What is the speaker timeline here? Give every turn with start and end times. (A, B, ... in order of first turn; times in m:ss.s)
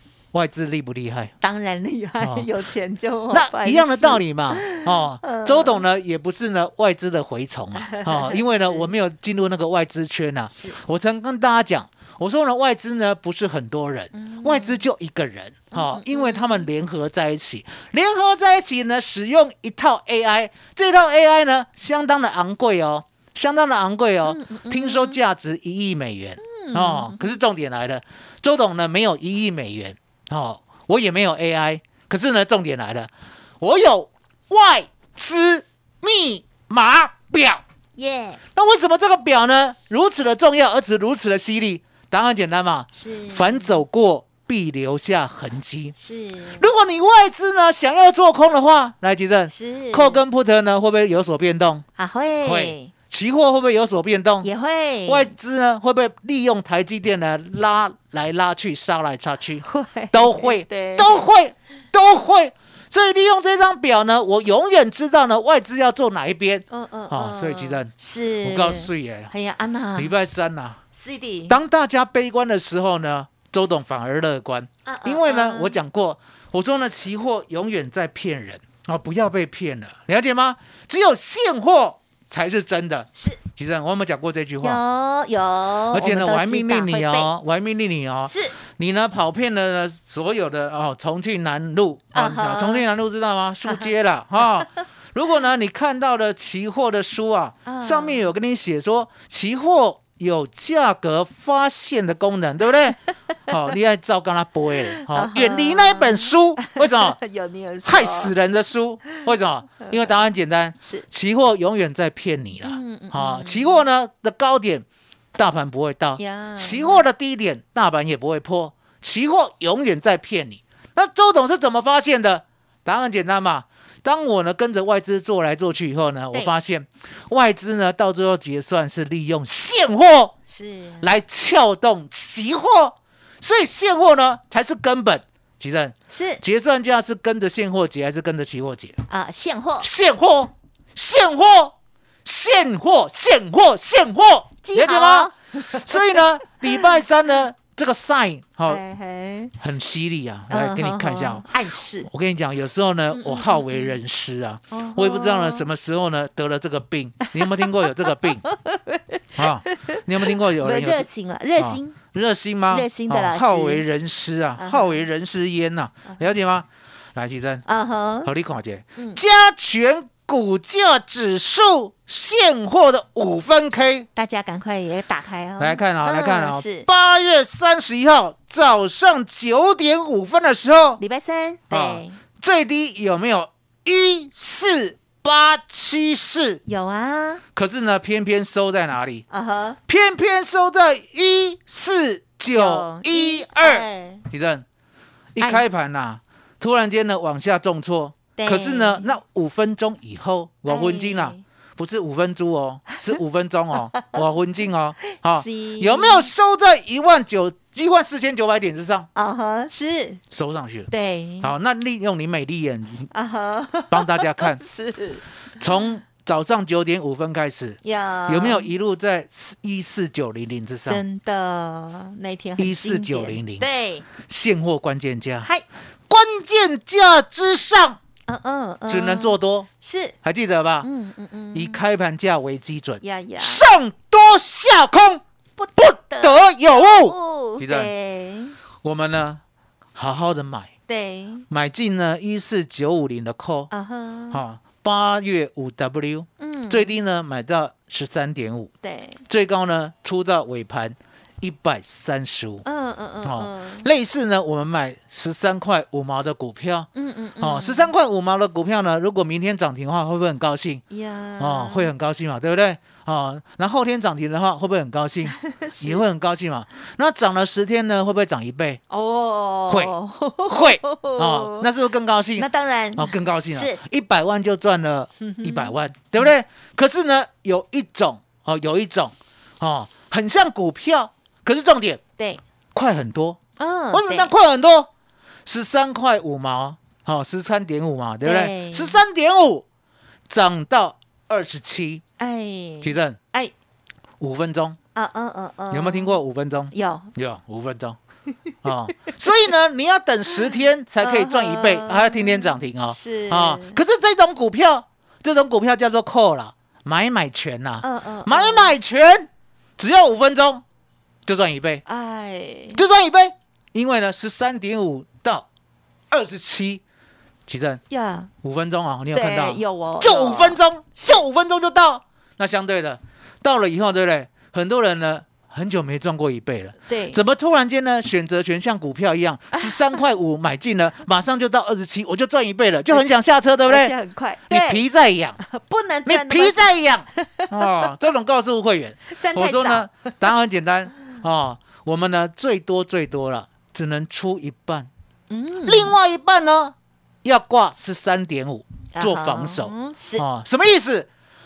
0:00.3-0:01.3 A
0:01.4-0:05.8 B
0:02.2-0:02.5 A
0:03.3-0:33.1 A
0:07.8-0:08.9 B
0:10.5-0:10.8 B
0:14.1-0:14.8 B
0:15.7-0:16.6 B
0:24.2-0:25.2 B
0:26.4-0:27.4 B
0:33.6-0:37.6 A
0:38.0-0:38.4 B
0:38.6-0:46.0 A
0:42.9-0:43.8 B
0:46.0-0:46.7 B
0:46.6-0:51.8 A
0:49.5-0:50.2 B
0:52.0-0:52.9 B
0:52.4-0:54.5 A
0:54.4-0:55.3 B
0:55.1-1:07.9 A
0:59.6-1:01.3 B
1:06.7-1:10.1 B
1:08.4-1:09.3 A
1:10.0-1:10.8 A
1:11.0-1:11.6 B
1:11.5-1:24.8 A
1:14.9-1:15.8 B
1:24.6-1:27.3 B
1:25.9-1:47.2 A
1:28.3-1:28.6 B
1:32.1-1:32.8 B
1:33.6-1:33.9 B
1:37.7-1:38.3 B
1:45.0-1:48.3 B
1:47.8-2:10.4 A
1:52.6-1:53.8 B
1:56.2-1:57.0 B
2:10.5-2:11.1 B
2:11.0-2:19.0 A
2:16.1-2:16.4 B
2:19.1-2:19.9 B
2:19.8-2:28.8 A
2:24.6-2:26.2 B
2:26.7-2:27.0 B
2:28.7-2:29.5 B
2:29.6-2:31.5 A
2:30.5-2:32.1 B
2:32.0-2:38.4 A
2:33.1-2:33.9 B
2:34.7-2:35.7 B
2:37.2-2:37.9 B
2:38.5-2:42.0 B
2:39.4-2:47.6 A
2:42.7-2:43.8 B
2:44.6-2:45.0 B
2:47.7-2:48.3 B
2:48.2-2:54.1 A
2:54.2-2:56.9 B
2:55.6-3:01.0 A
3:01.0-3:02.2 B
3:01.7-3:06.6 A
3:06.7-3:07.4 B
3:07.6-3:09.2 A
3:09.3-3:09.8 B
3:09.9-3:14.6 A
3:12.5-3:14.2 B
3:15.4-3:29.1 A
3:18.4-3:19.2 B
3:20.7-3:21.4 B
3:23.9-3:24.2 B
3:25.1-3:26.3 B
3:29.2-3:30.2 B
3:30.3-3:30.9 A
3:30.9-3:31.5 B
3:31.4-3:33.1 A
3:33.1-3:35.9 B
3:33.9-3:34.6 A
3:35.6-3:41.0 A
3:37.8-3:38.7 B
3:40.9-3:44.1 B
3:42.6-3:43.7 A
3:44.2-3:45.5 A
3:46.1-3:48.0 A
3:48.3-3:50.2 B
3:48.9-3:49.7 A
3:50.2-3:50.9 A
3:50.8-3:51.8 B
3:51.5-3:55.2 A
3:53.0-3:53.6 B
3:55.6-3:58.6 B
3:55.8-3:57.9 A
3:58.8-3:59.4 A
4:00.0-4:00.7 A
4:00.9-4:01.5 B
4:01.5-4:03.7 A
4:03.7-4:04.4 B
4:04.3-4:08.7 A
4:06.4-4:07.0 B
4:08.8-4:09.2 B
4:09.3-4:12.6 A
4:12.6-4:13.9 B
4:13.2-4:20.8 A
4:17.0-4:17.9 B
4:20.9-4:21.9 B
4:21.4-4:28.8 A
4:25.3-4:26.0 B
4:28.9-4:31.7 B
4:29.7-4:29.9 A
4:30.5-4:42.0 A
4:32.4-4:33.8 B
4:35.2-4:36.3 B
4:42.7-4:43.4 A
4:43.6-4:44.3 B
4:43.9-4:44.9 A
4:45.5-4:49.6 A
4:48.2-4:49.0 B
4:50.3-4:52.0 A
4:52.2-4:53.5 B
4:52.8-4:53.2 A
4:54.2-4:54.8 A
4:55.0-4:56.2 B
4:55.7-4:58.0 A
4:56.7-4:57.1 B
4:58.6-5:10.6 A
5:00.4-5:03.8 B
5:07.8-5:08.7 B
5:11.3-5:11.8 A
5:11.9-5:12.8 B
5:12.8-5:15.5 A
5:16.1-5:16.8 A
5:17.5-5:17.8 A
5:17.9-5:18.3 B
5:18.4-5:34.0 A
5:19.1-5:21.2 B
5:26.9-5:27.2 B
5:33.7-5:34.8 B
5:34.5-5:35.4 A
5:35.4-5:37.9 B
5:36.1-5:44.9 A
5:39.1-5:40.1 B
5:45.3-5:46.0 B
5:45.7-5:51.1 A
5:48.9-5:50.2 B